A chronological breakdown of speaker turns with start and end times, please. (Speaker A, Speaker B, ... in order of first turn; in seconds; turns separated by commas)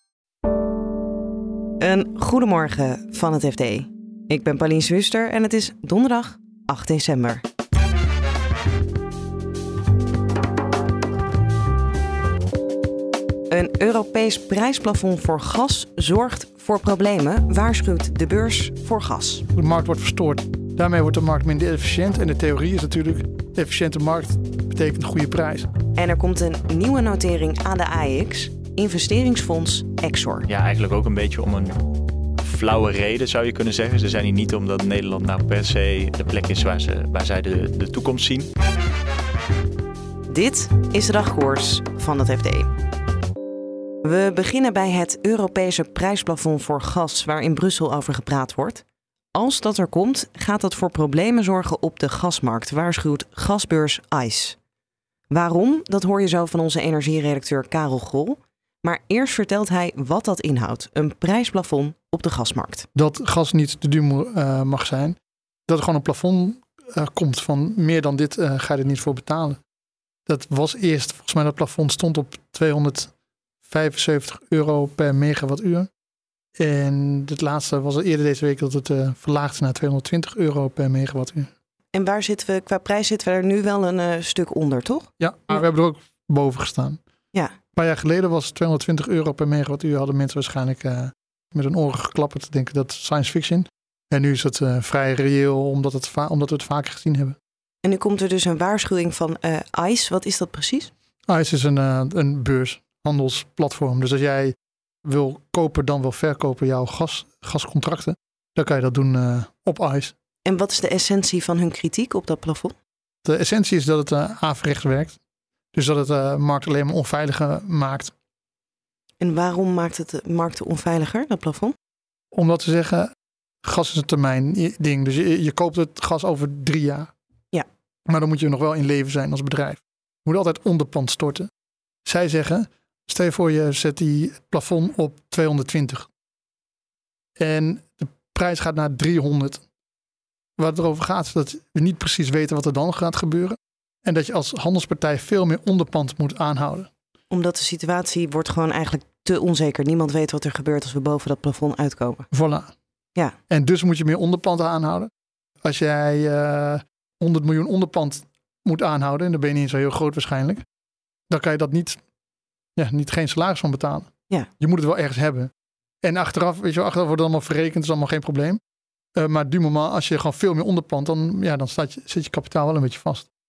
Speaker A: 1.8-7.4, Speaker A: 13.5-19.4, Speaker B: 19.5-25.7, Speaker A: 25.9-30.5, Speaker C: 30.4-31.8, Speaker C: 32.4-38.5, Speaker A: 40.3-42.7, Speaker A: 44.0-48.8, Speaker A: 49.3-54.6, Speaker A: 55.3-62.9, Speaker B: 62.9-65.2, Speaker B: 65.7-69.6, Speaker B: 70.3-73.1, Speaker B: 73.7-75.9, Speaker B: 76.6-81.5, Speaker A: 81.9-85.1, Speaker B: 85.2-87.0, Speaker B: 87.7-97.4, Speaker A: 97.8-100.9, Speaker B: 101.3-104.5, Speaker B: 105.0-110.1, Speaker A: 110.4-112.7, Speaker B: 113.2-115.2, Speaker B: 115.7-118.1, Speaker A: 119.2-121.7, Speaker B: 122.3-123.1, Speaker B: 123.6-127.1, Speaker B: 128.1-131.5, Speaker B: 132.0-136.1, Speaker B: 137.4-139.6, Speaker B: 140.6-146.9, Speaker A: 147.3-152.3, Speaker B: 152.3-152.7, Speaker B: 153.5-155.1, Speaker B: 155.6-160.6, Speaker B: 161.3-162.0, Speaker B: 162.8-164.1, Speaker B: 164.6-165.5, Speaker B: 166.0-168.6, Speaker B: 169.2-173.3